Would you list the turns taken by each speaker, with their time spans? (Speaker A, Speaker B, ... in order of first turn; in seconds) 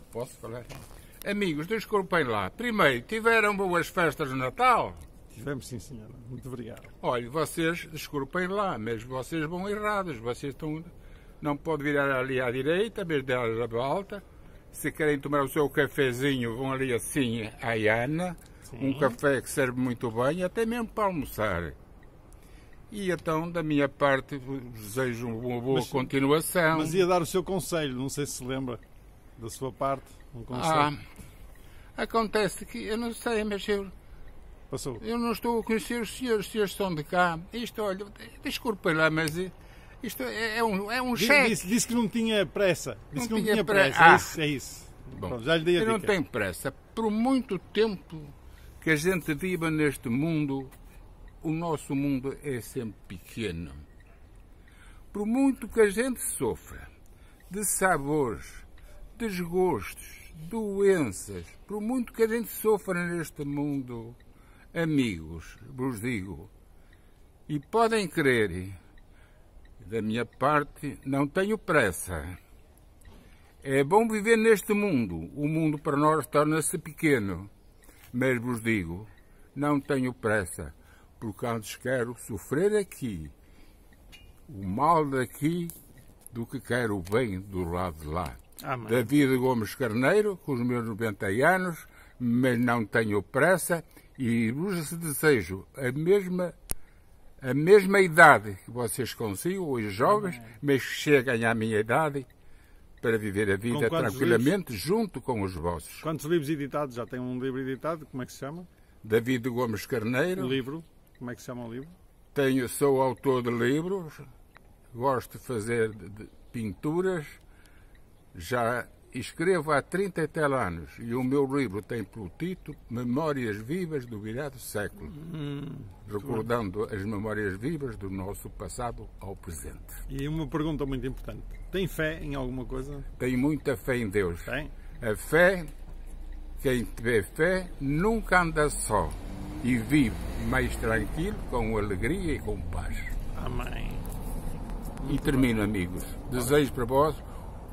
Speaker A: 0.1-5.0, 7.0-21.8, 22.9-27.1, 30.5-31.0, 31.9-33.9, 35.0-41.6, 43.1-44.4, 45.1-50.7, 51.4-53.8, 55.1-56.9, 57.5-64.2, 64.7-66.5, 67.5-68.8, 69.8-72.4, 73.6-77.5, 78.1-83.3, 84.5-85.7, 86.3-96.5, 97.4-102.3, 103.0-106.0, 109.0-110.6, 112.3-114.2, 114.9-117.4, 118.3-125.2, 126.0-130.0, 133.2-135.7, 136.6-143.1, 145.0-147.2
Speaker B: 5.3-6.9, 18.7-19.2, 25.7-26.1, 26.7-28.8, 29.4-30.9, 34.7-35.0, 41.1-46.1, 88.6-89.1, 100.1-100.5, 103.7-104.5, 106.0-108.7, 110.4-111.9, 125.1-126.5, 130.1-133.1, 134.5-134.7, 143.3-144.1, 145.0-145.5